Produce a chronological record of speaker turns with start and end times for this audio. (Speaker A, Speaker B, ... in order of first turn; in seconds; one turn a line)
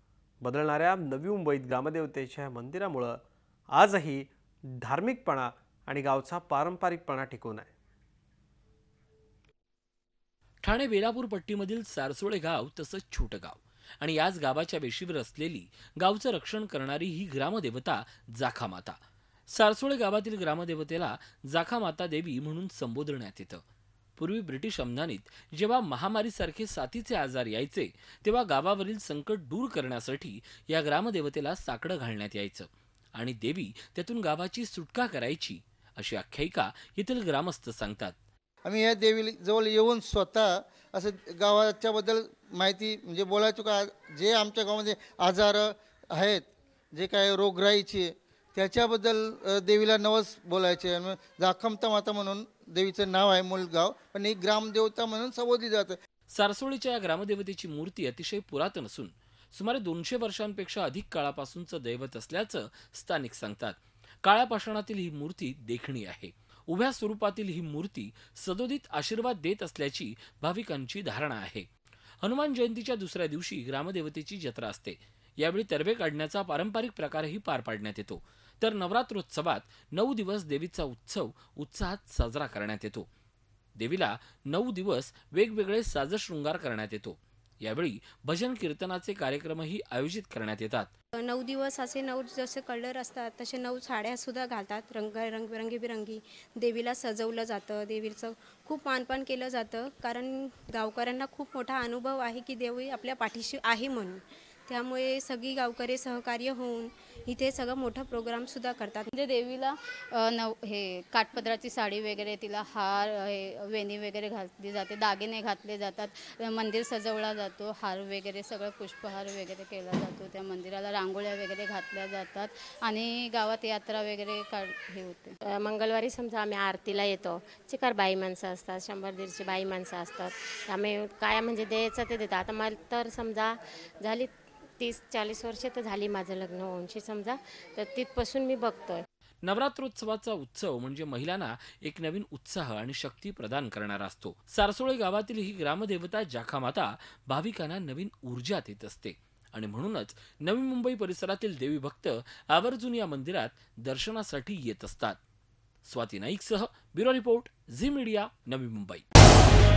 Speaker A: 0.4-3.2
Speaker A: 3.7-7.7
Speaker B: 10.6-19.0
Speaker B: 19.5-23.6
Speaker B: 24.2-38.2
Speaker C: 38.6-56.0
Speaker B: 56.3-71.7
Speaker B: 72.2-83.1
Speaker B: 83.8-90.9
Speaker D: 91.2-109.1
Speaker E: 109.2-125.3
Speaker F: 125.5-139.0
Speaker B: 139.4-155.2
Speaker B: 155.8-159.1